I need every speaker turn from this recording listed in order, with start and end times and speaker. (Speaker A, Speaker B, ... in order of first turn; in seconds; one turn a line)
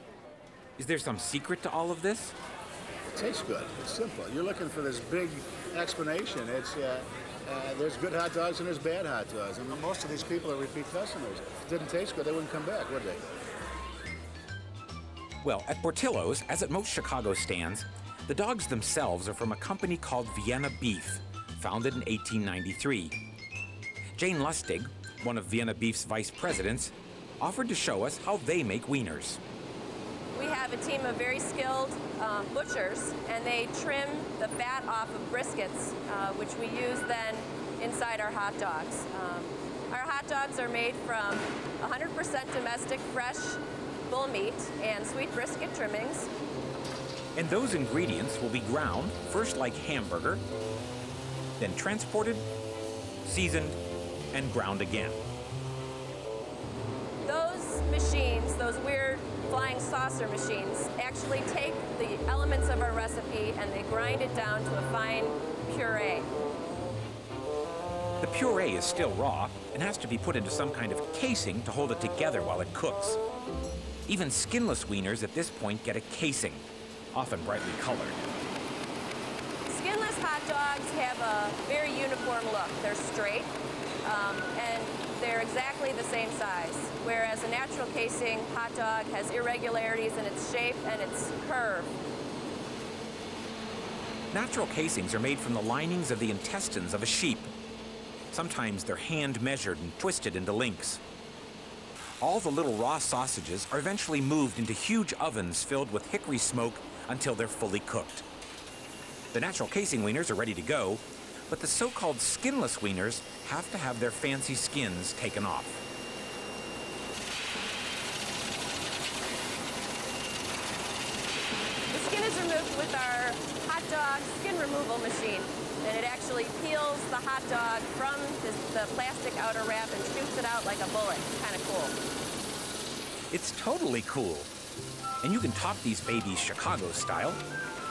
Speaker A: 0.8-2.3
Speaker B: 3.1-13.3
Speaker A: 15.4-23.1
Speaker A: 24.1-29.4
Speaker C: 30.3-46.3
Speaker A: 47.3-50.4
Speaker A: 51.6-52.5
Speaker A: 53.2-53.8
Speaker A: 54.3-55.2
Speaker C: 57.2-66.3
Speaker A: 68.2-73.2
Speaker A: 74.1-78.2
Speaker C: 79.7-83.5
Speaker C: 84.0-91.9
Speaker A: 94.3-97.5
Speaker A: 98.3-101.0
Speaker A: 102.2-108.2
Speaker A: 109.3-115.8
Speaker C: 121.9-131.9
Speaker A: 133.3-134.5
Speaker A: 135.2-137.4